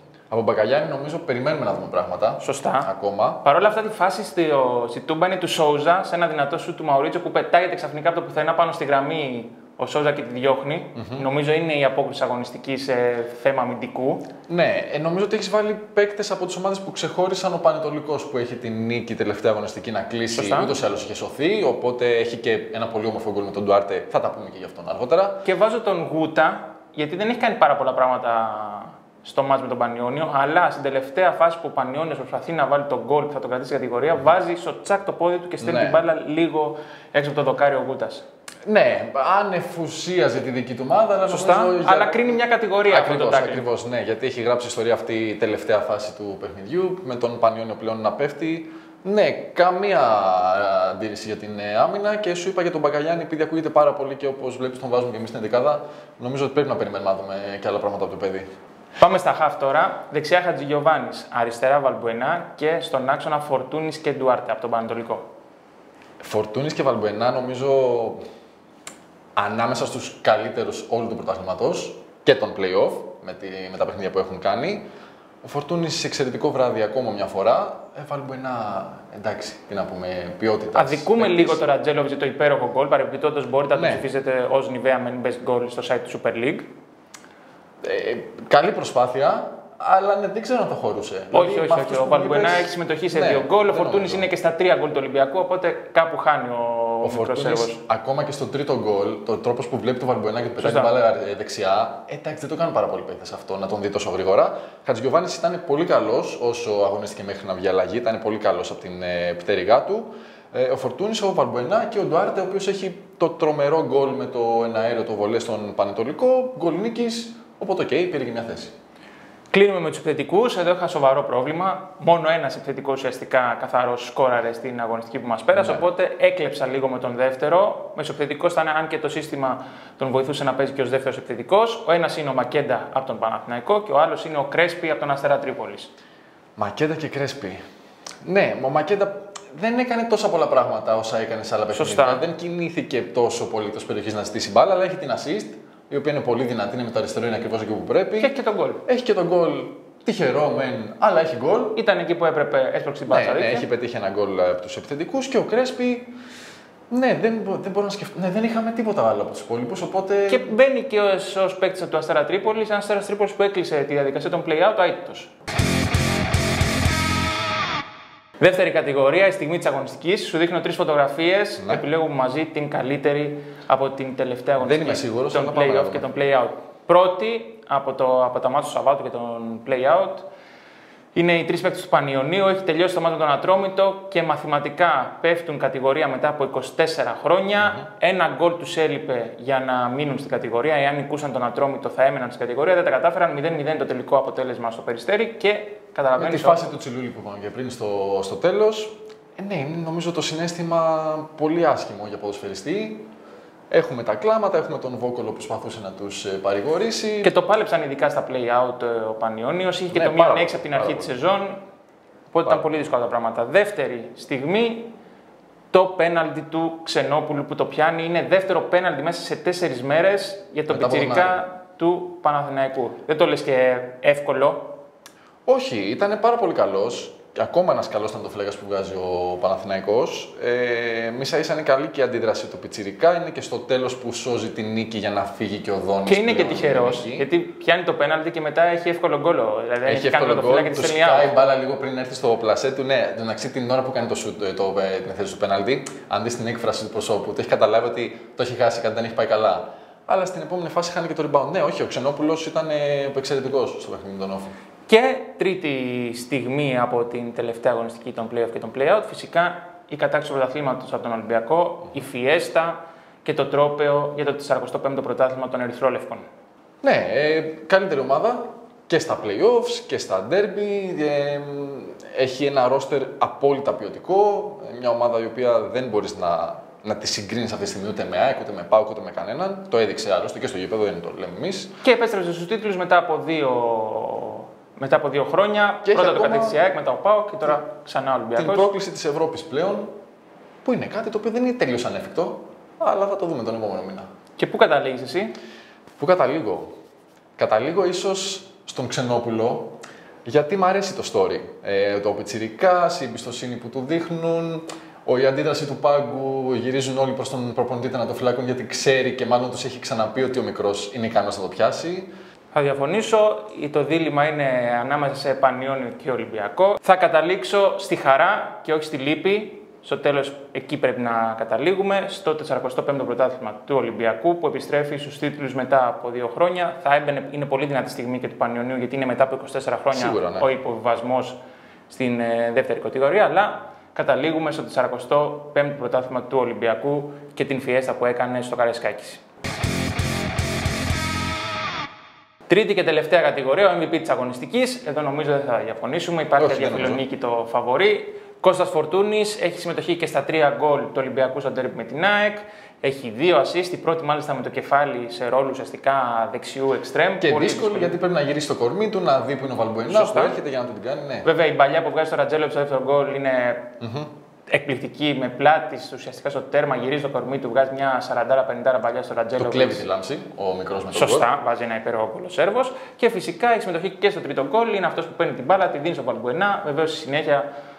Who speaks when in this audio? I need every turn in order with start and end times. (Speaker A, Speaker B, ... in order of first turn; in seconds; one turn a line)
Speaker A: 0.3-3.4
Speaker B: 2.4-2.9
Speaker B: 3.4-14.3
Speaker A: 10.9-11.2
Speaker A: 14.5-25.4
Speaker B: 20.3-20.8
Speaker B: 25.4-38.2
Speaker A: 35.6-36.0
Speaker A: 38.6-58.5
Speaker B: 41.3-43.6
Speaker B: 59.0-65.2
Speaker A: 66.2-68.2
Speaker A: 69.3-74.8
Speaker A: 75.4-81.6
Speaker B: 80.7-86.7
Speaker A: 83.7-84.0
Speaker A: 87.8-94.3
Speaker B: 91.3-97.8
Speaker A: 97.0-118.7
Speaker B: 100.6-100.9
Speaker B: 119.5-135.9
Speaker A: 125.5-125.8
Speaker A: 136.6-137.6
Speaker A: 138.2-148.3
Speaker B: 141.7-142.2
Speaker B: 148.2-148.8
Speaker A: 148.8-151.8
Speaker B: 151.7-153.7
Speaker A: 153.1-156.1
Speaker A: 156.9-160.5
Speaker B: 160.3-165.3
Speaker B: 168.4-180.3
Speaker A: 174.6-176.1
Speaker B: 181.1-196.6
Speaker A: 196.2-203.1
Speaker A: 203.7-207.3
Speaker B: 207.2-211.6
Speaker A: 209.9-211.2
Speaker B: 212.3-214.9
Speaker B: 215.7-224.8
Speaker A: 220.7-221.4
Speaker A: 225.4-237.3
Speaker B: 236.1-241.3
Speaker A: 239.8-254.5
Speaker B: 254.9-266.2
Speaker A: 266.8-281.7
Speaker B: 281.8-288.7
Speaker A: 285.8-286.6
Speaker A: 288.4-289.9
Speaker A: 290.6-294.1
Speaker B: 294.4-295.3
Speaker A: 296.0-296.7
Speaker A: 297.4-312.1
Speaker B: 312.5-331.4
Speaker A: 329.9-330.5
Speaker B: 331.9-339.2
Speaker B: 342.5-358.0
Speaker A: 346.4-347.0
Speaker A: 357.2-361.3
Speaker B: 359.9-360.4
Speaker B: 361.2-363.7
Speaker A: 363.8-364.1
Speaker B: 364.5-369.8
Speaker A: 369.4-371.3
Speaker B: 370.9-377.4